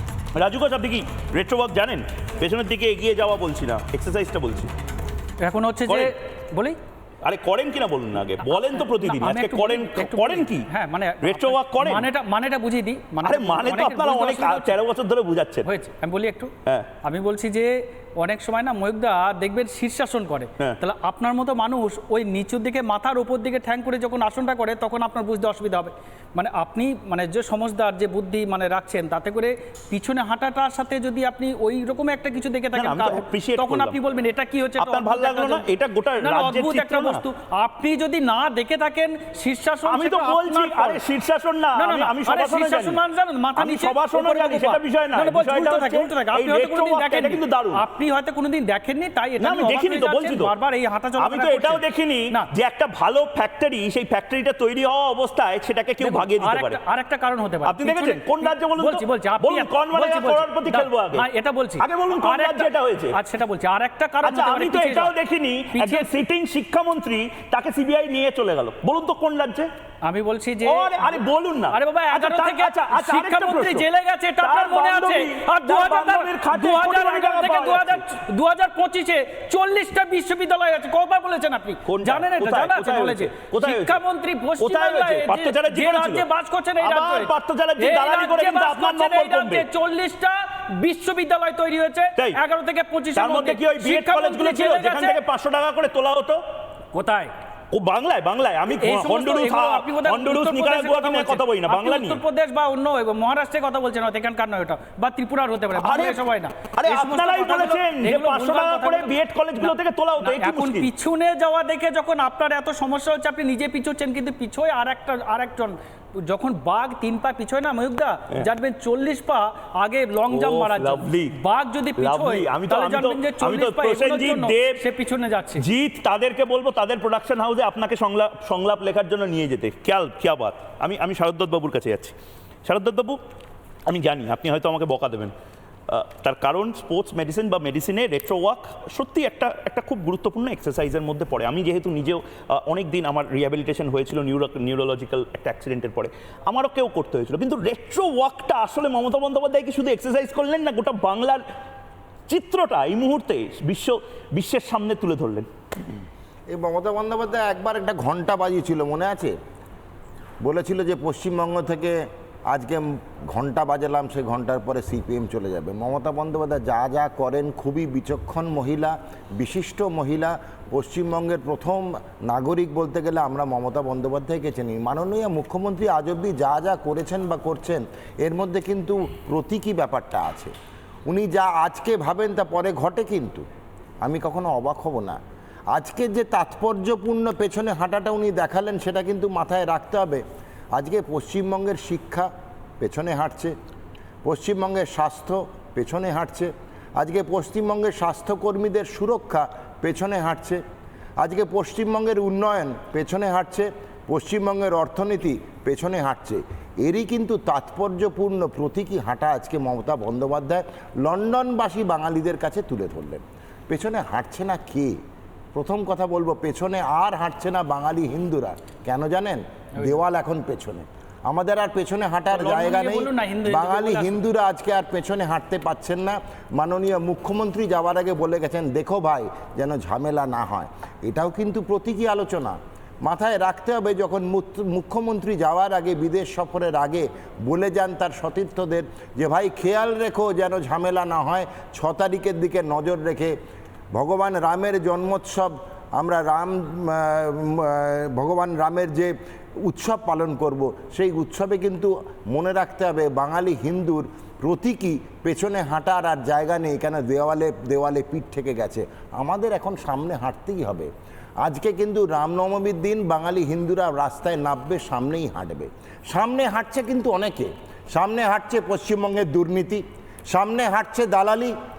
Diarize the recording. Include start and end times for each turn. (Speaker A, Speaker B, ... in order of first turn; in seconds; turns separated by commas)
Speaker A: 0.3-4.7, Speaker B: 5.4-6.8, Speaker A: 5.9-6.1, Speaker A: 7.2-10.7, Speaker B: 8.7-14.8, Speaker A: 11.2-12.1, Speaker A: 13.2-15.7, Speaker B: 15.6-16.5, Speaker B: 17.0-35.6, Speaker A: 32.7-34.0, Speaker A: 34.8-37.2, Speaker B: 36.2-41.0, Speaker A: 39.9-43.0, Speaker B: 41.8-52.5, Speaker A: 43.6-47.8, Speaker A: 49.4-50.5, Speaker A: 51.2-56.8, Speaker B: 56.0-65.1, Speaker A: 57.6-61.2, Speaker A: 61.8-63.2, Speaker A: 64.2-69.7, Speaker B: 65.7-66.1, Speaker B: 70.0-71.2, Speaker A: 70.6-73.8, Speaker B: 71.7-95.2, Speaker A: 74.4-78.0, Speaker A: 81.8-84.0, Speaker A: 84.6-86.2, Speaker A: 86.8-89.7, Speaker A: 93.1-96.4, Speaker B: 96.9-97.3, Speaker A: 97.7-102.2, Speaker B: 98.8-125.6, Speaker A: 105.8-106.2, Speaker A: 106.7-110.9, Speaker A: 120.3-121.3, Speaker A: 122.0-124.8, Speaker A: 125.6-132.1, Speaker A: 132.6-133.2, Speaker A: 133.8-135.3, Speaker A: 135.9-151.4, Speaker A: 152.3-155.5, Speaker C: 156.5-159.3, Speaker C: 160.4-180.5, Speaker C: 181.1-183.4, Speaker C: 184.0-185.2, Speaker C: 185.7-190.2, Speaker C: 190.7-193.5, Speaker C: 194.2-200.6, Speaker C: 201.2-215.0, Speaker C: 215.5-243.3, Speaker B: 222.3-224.2, Speaker C: 243.9-260.9, Speaker C: 261.4-271.5